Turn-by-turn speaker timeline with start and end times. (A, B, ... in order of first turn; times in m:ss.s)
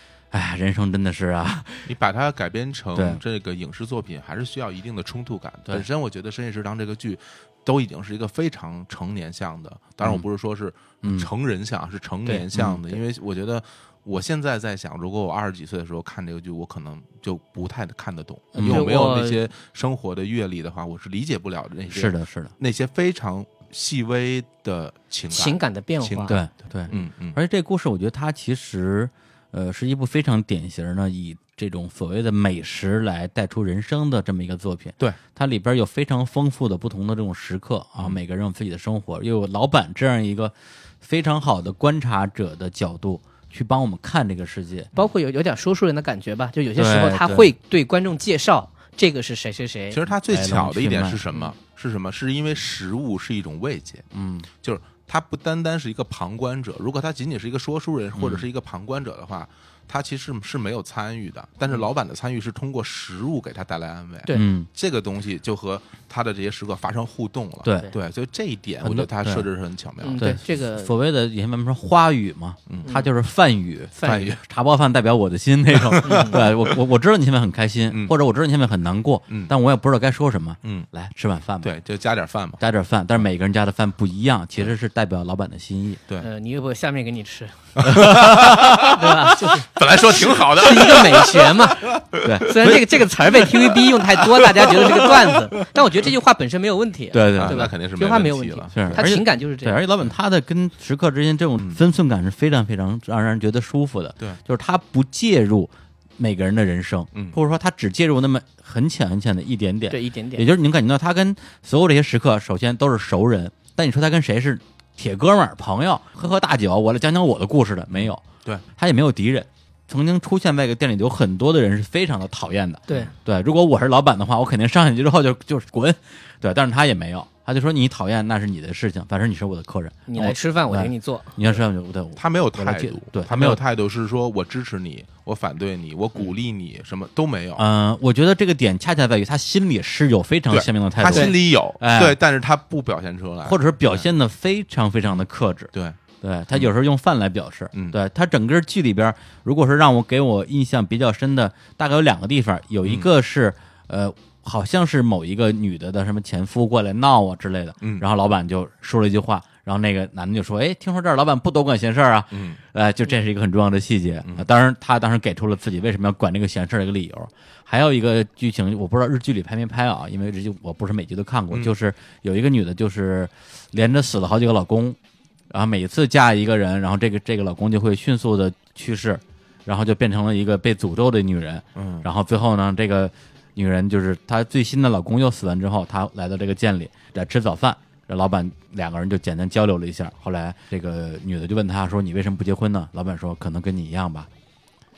0:00.3-0:01.9 A
0:01.9-0:27.4 B
0:03.0-0:03.2 A
0:11.0-0:11.3 A
0:12.5-0:13.0 A
0:18.6-0:18.9 A
0:18.6-0:19.4 C
0:21.9-0:22.5 A
0:25.3-0:26.4 C
0:26.3-0:44.9 A
0:45.0-0:50.0 C
0:46.8-0:47.5 A
0:49.9-0:54.1 B
0:50.3-0:51.2 A
0:54.1-0:54.5 A
0:54.6-1:10.3 B
0:58.2-0:58.5 A
1:04.3-1:04.7 A
1:08.8-1:09.5 A
1:10.0-1:10.9 C
1:10.2-1:21.7 A
1:12.8-1:13.1 C
1:14.0-1:14.4 C
1:14.0-1:14.4 B
1:15.8-1:16.5 B
1:16.0-1:16.4 C
1:17.9-1:18.2 B
1:19.3-1:19.5 B
1:21.6-1:22.6 B
1:22.6-1:26.0 A
1:26.2-1:28.1 C
1:27.8-1:29.0 B
1:27.8-1:29.3 A
1:28.7-1:39.8 C
1:29.6-1:35.3 B
1:32.2-1:32.9 A
1:37.1-1:37.7 A
1:37.4-1:39.0 B
1:38.8-1:58.2 A
1:47.1-1:47.4 B
1:49.9-1:50.5 C
1:57.9-1:58.6 B
1:58.8-2:13.6 A
2:10.1-2:11.4 C
2:12.2-2:17.6 B
2:17.6-2:22.2 A
2:20.5-2:24.1 B
2:23.4-2:55.0 A
2:27.7-2:28.0 B
2:32.8-2:33.1 B
2:37.8-2:38.1 B
2:42.3-2:42.6 B
2:55.5-3:14.3 A
3:01.8-3:02.1 B